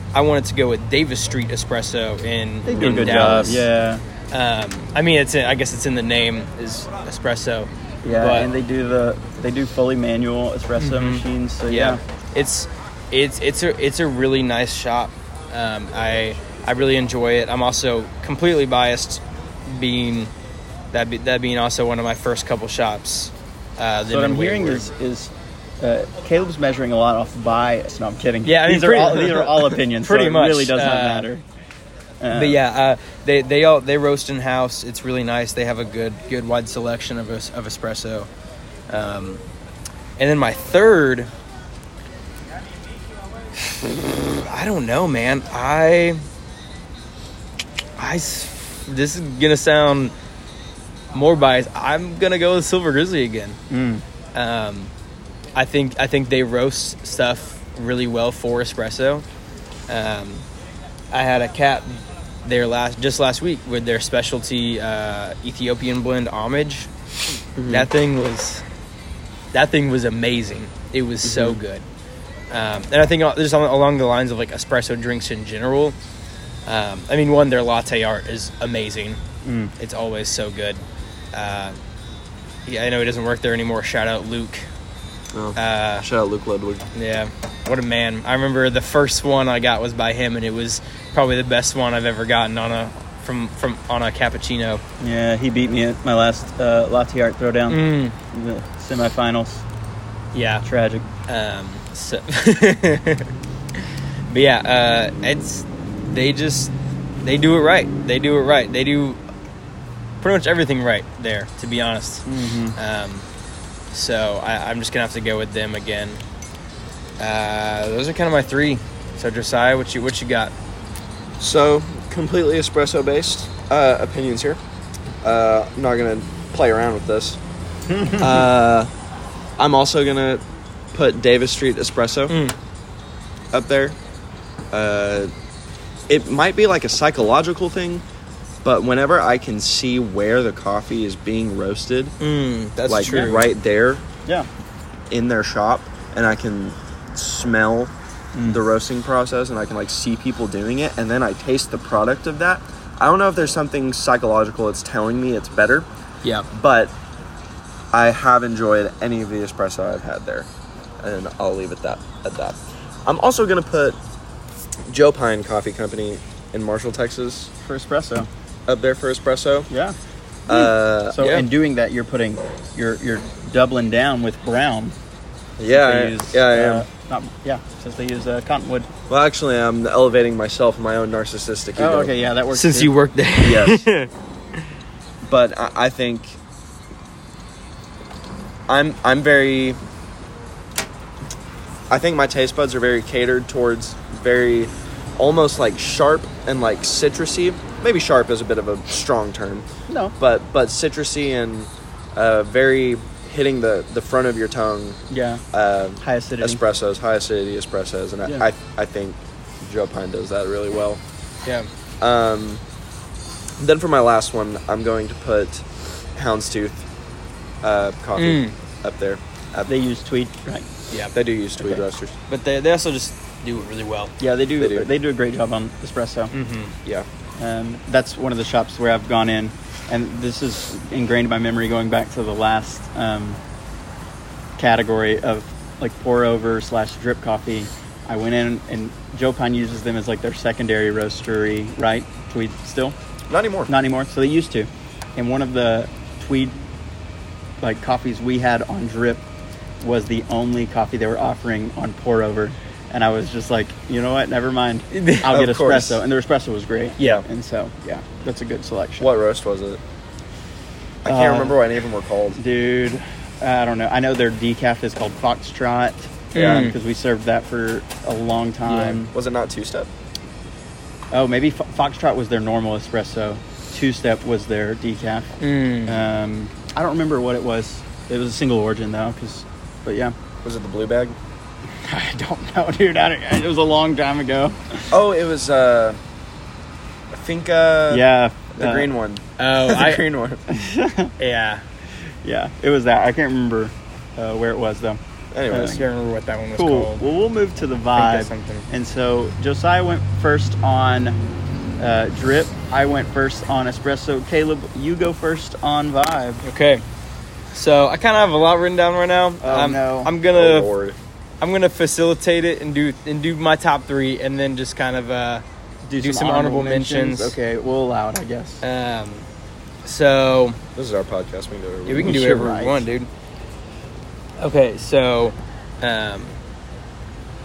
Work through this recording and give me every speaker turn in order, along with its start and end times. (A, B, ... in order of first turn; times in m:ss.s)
0:00.1-0:03.6 A
0:02.6-0:04.0 B
0:02.8-0:03.5 C
0:04.3-0:08.5 A
0:08.0-0:12.0 B
0:10.8-0:20.3 A
0:20.9-0:24.9 A
0:24.1-0:31.4 B
0:28.4-0:31.3 A
0:32.2-0:32.6 B
0:32.3-0:38.3 A
0:38.9-0:39.4 A
0:40.2-0:41.3 A
0:44.4-0:46.2 A
0:48.0-0:50.1 A
0:51.1-0:53.6 A
0:53.7-0:54.0 B
0:54.3-0:54.9 A
0:55.5-0:59.2 A
0:59.9-1:00.5 A
1:01.1-1:06.9 A
1:07.6-1:07.9 C
1:07.7-1:08.6 A
1:09.5-1:11.8 A
1:11.2-1:11.6 C
1:12.5-1:16.0 A
1:16.6-1:19.2 A
1:19.4-1:19.7 B
1:19.8-1:20.8 A
1:21.3-1:21.8 A
1:22.6-1:24.7 A
1:25.3-1:26.8 C
1:25.6-1:26.0 A
1:26.9-1:34.8 A
1:35.0-1:39.6 B
1:37.7-1:38.2 A
1:40.3-1:40.6 A
1:40.6-1:41.0 B
1:41.3-1:43.3 A
1:44.3-1:46.7 A
1:47.2-1:49.2 A
1:50.2-1:53.2 A
1:52.2-1:52.8 B
1:53.9-1:56.2 A
1:57.2-2:00.5 A
2:01.4-2:04.6 C
2:05.2-2:07.4 C
2:07.9-2:08.5 B
2:08.2-2:08.9 C
2:09.6-2:10.4 C
2:10.9-2:12.4 C
2:12.3-2:12.5 A
2:13.5-2:14.0 C
2:14.7-2:15.3 C
2:16.1-2:18.0 C
2:18.6-2:22.2 C
2:22.2-2:23.4 A
2:22.9-2:24.0 C
2:23.0-2:23.5 B
2:25.1-2:27.9 C
2:28.3-2:28.6 B
2:28.4-2:35.9 C
2:36.5-2:36.9 C
2:37.9-2:40.5 C
2:41.0-2:44.0 C
2:44.9-2:47.5 C
2:47.6-2:48.3 B
2:48.7-2:49.7 C
2:49.7-2:50.0 B
2:50.5-2:51.4 C
2:50.5-2:55.0 B
2:55.6-2:56.8 C
2:55.7-2:58.9 B
2:59.1-3:02.2 C
3:01.8-3:03.8 B
3:02.5-3:04.1 A
3:05.2-3:06.4 C
3:08.7-3:09.8 C
3:11.9-3:19.6 C
3:19.9-3:20.2 B
3:20.2-3:25.0 C
3:25.1-3:25.4 B
3:25.5-3:31.0 C
3:26.0-3:26.6 B
3:32.0-3:32.6 C
3:33.6-3:35.6 C
3:36.2-3:36.8 C
3:37.6-3:39.7 C
3:38.2-3:38.5 A
3:39.7-3:40.7 B
3:41.1-3:42.2 C
3:41.6-3:41.8 B
3:42.3-3:44.1 A
3:44.2-3:46.3 B
3:44.6-3:44.9 C
3:46.3-3:46.7 A
3:47.4-3:53.4 B
3:54.6-4:03.0 B
4:03.3-4:03.7 C
4:03.7-4:06.6 B
4:07.6-4:09.2 B
4:09.8-4:19.1 B
4:14.9-4:15.3 A
4:15.2-4:16.0 C
4:19.0-4:19.8 C
4:21.0-4:22.4 C
4:21.0-4:21.6 B
4:22.4-4:29.1 B
4:26.3-4:26.7 A
4:28.7-4:29.0 A
4:29.1-4:29.9 C
4:31.1-4:40.1 B
4:35.4-4:36.0 A
4:40.4-4:41.2 C
4:41.8-4:44.9 B
4:44.9-4:46.0 C
4:47.1-4:48.0 C
4:47.9-4:48.9 B
4:48.6-4:50.4 C
4:49.4-4:50.0 A
4:50.5-4:51.1 B
4:51.2-4:51.6 A
4:52.2-4:55.8 B
4:55.3-4:55.8 C
4:55.6-4:57.0 A
4:56.5-5:01.2 B
4:58.0-4:58.7 A
5:01.8-5:06.4 B
5:06.4-5:06.8 A
5:07.5-5:10.7 A
5:09.4-5:10.1 B
5:10.3-5:11.0 C
5:11.4-5:15.4 A
5:15.8-5:18.6 B
5:16.0-5:17.3 A
5:18.6-5:19.3 A
5:19.8-5:20.6 A
5:20.8-5:22.2 C
5:21.8-5:23.1 A
5:22.0-5:22.8 B
5:24.4-5:26.4 A